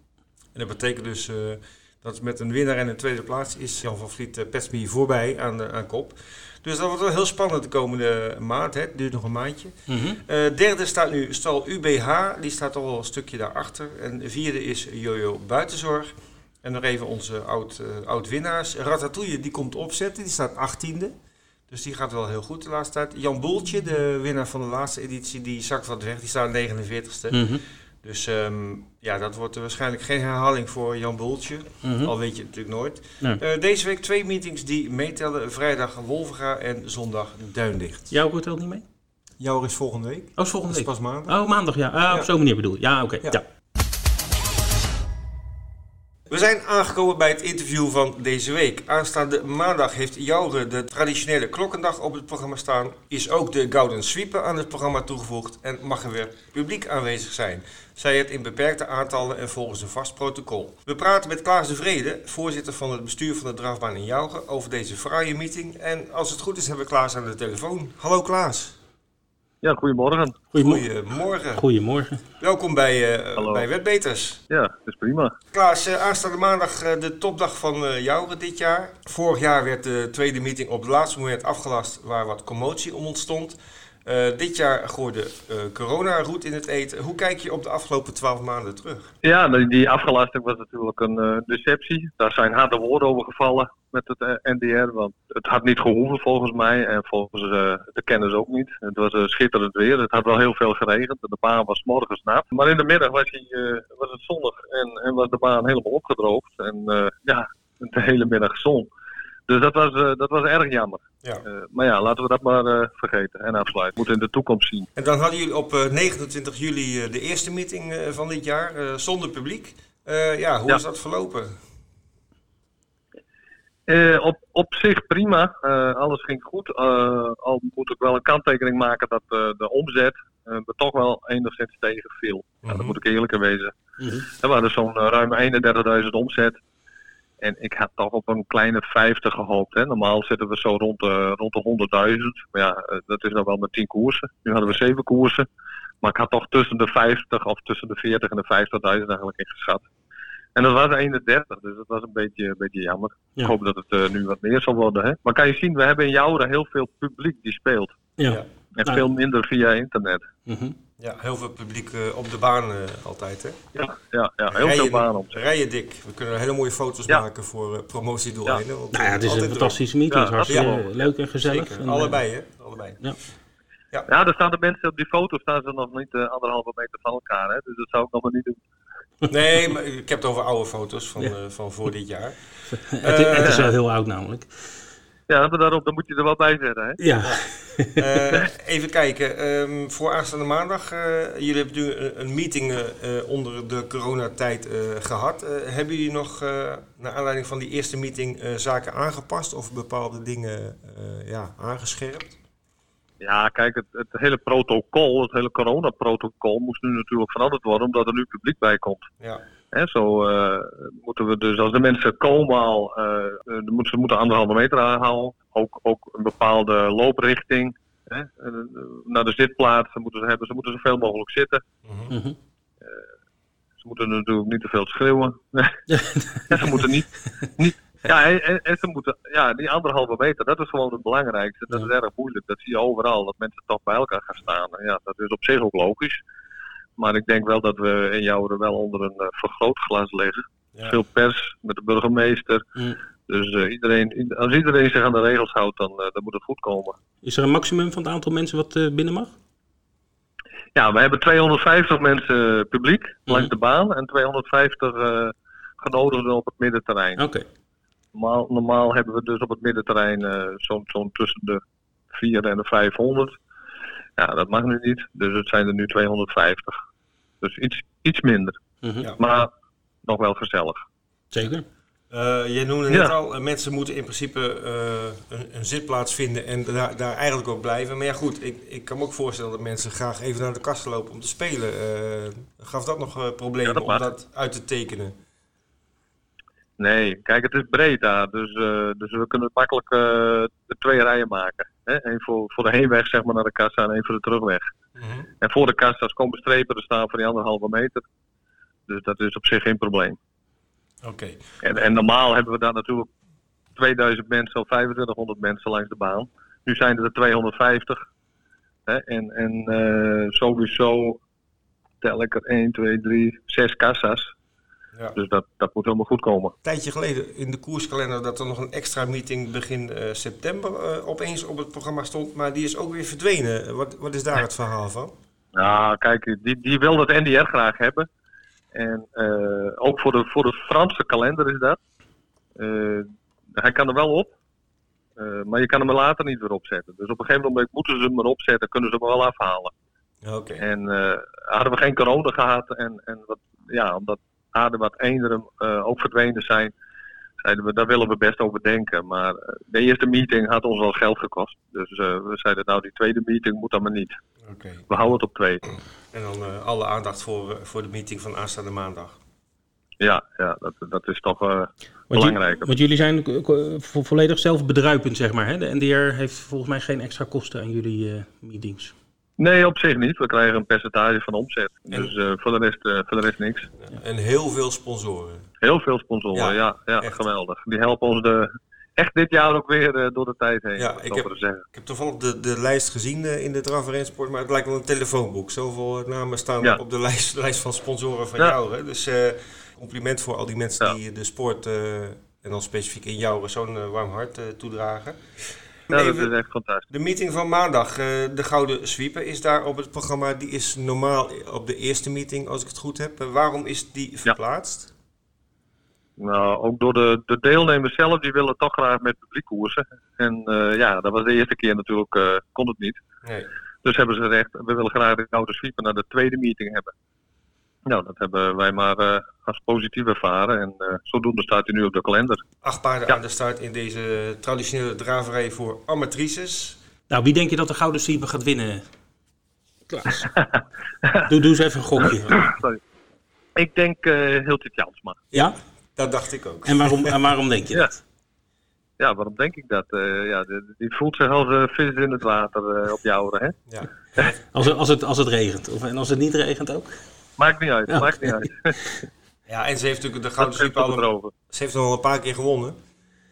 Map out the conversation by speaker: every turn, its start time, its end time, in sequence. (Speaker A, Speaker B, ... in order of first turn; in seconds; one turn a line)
Speaker A: 0.5-16.1
Speaker B: 9.9-10.2
Speaker A: 16.6-21.1
Speaker A: 21.7-27.5
Speaker B: 27.3-27.6
Speaker A: 28.0-38.1
Speaker B: 31.8-32.1
Speaker B: 38.1-38.8
Speaker A: 39.4-41.3
Speaker B: 40.4-43.4
Speaker A: 46.3-68.8
Speaker C: 69.6-70.4
Speaker B: 70.5-70.8
Speaker A: 70.5-71.6
Speaker B: 71.5-72.2
Speaker A: 72.4-74.4
Speaker C: 73.4-73.7
Speaker C: 74.5-75.3
Speaker A: 75.5-89.1
Speaker C: 89.2-108.9
Speaker C: 109.5-114.9
Speaker A: 115.0-121.6
Speaker C: 123.9-133.7
Speaker A: 132.6-133.0
Speaker B: 134.0-134.3
Speaker C: 134.3-136.6
Speaker C: 137.4-145.5
Speaker C: 146.0-149.8
Speaker C: 150.5-158.0
Speaker B: 158.2-159.1
Speaker C: 158.7-160.3
Speaker B: 160.5-160.8
Speaker A: 161.0-163.7
Speaker C: 163.7-165.4
Speaker A: 164.5-169.8
Speaker B: 168.9-172.2
Speaker C: 170.1-171.1
Speaker A: 170.5-170.7
Speaker A: 171.4-173.0
Speaker C: 174.1-178.6
Speaker A: 179.3-182.4
Speaker B: 182.7-184.5
Speaker A: 183.0-183.7
Speaker C: 183.3-183.7
Speaker C: 185.3-187.0
Speaker B: 187.0-188.2
Speaker A: 187.9-202.4
Speaker C: 203.2-209.1
Speaker C: 209.7-221.6
Speaker A: 221.8-222.1
Speaker B: 222.1-222.3
Speaker C: 223.8-225.8
Speaker B: 225.9-226.7
Speaker C: 226.5-236.2
Speaker C: 237.0-242.6
Speaker C: 243.3-247.0
Speaker B: 247.2-249.3
Speaker C: 250.7-257.2
Speaker B: 257.2-257.4
Speaker C: 258.1-261.6
Speaker C: 262.1-263.4
Speaker C: 264.2-266.8
Speaker C: 267.4-268.6
Speaker B: 268.8-269.1
Speaker C: 269.2-269.5
Speaker C: 270.0-270.8
Speaker B: 271.3-271.6
Speaker A: 272.1-285.1
Speaker C: 283.6-284.1
Speaker C: 286.8-294.7
Speaker A: 294.9-295.3
Speaker C: 295.4-298.0
Speaker C: 298.9-300.2
Speaker A: 301.0-301.8
Speaker C: 301.6-303.1
Speaker C: 303.8-308.0
Speaker C: 308.9-311.2
Speaker C: 312.0-314.3
Speaker C: 315.1-316.5
Speaker A: 316.6-325.1
Speaker C: 325.6-328.1
Speaker C: 328.7-331.8
Speaker C: 332.6-334.3
Speaker C: 335.2-339.7
Speaker A: 340.2-340.6
Speaker C: 340.6-346.7
Speaker C: 347.4-354.1
Speaker A: 354.4-354.9
Speaker C: 354.9-355.6
Speaker A: 356.1-359.2
Speaker C: 360.0-362.7
Speaker B: 362.1-368.9
Speaker C: 369.4-373.7
Speaker A: 373.8-375.5
Speaker C: 375.6-381.6
Speaker A: 376.3-377.2
Speaker A: 380.8-395.2
Speaker A: 395.9-396.3
Speaker C: 395.9-396.8
Speaker A: 396.9-404.9
Speaker C: 406.2-413.0
Speaker A: 413.2-413.5
Speaker C: 413.8-416.9
Speaker C: 417.9-422.4
Speaker A: 422.6-426.8
Speaker B: 427.1-428.8
Speaker B: 429.9-430.3
Speaker C: 430.4-431.2
Speaker B: 431.2-432.3
Speaker C: 432.0-432.8
Speaker C: 433.5-435.2
Speaker A: 435.3-437.2
Speaker B: 436.6-438.0
Speaker C: 439.0-443.6
Speaker A: 443.7-444.3
Speaker B: 444.2-446.9
Speaker C: 447.4-448.9
Speaker B: 447.9-448.4
Speaker A: 449.5-452.8
Speaker C: 450.4-451.3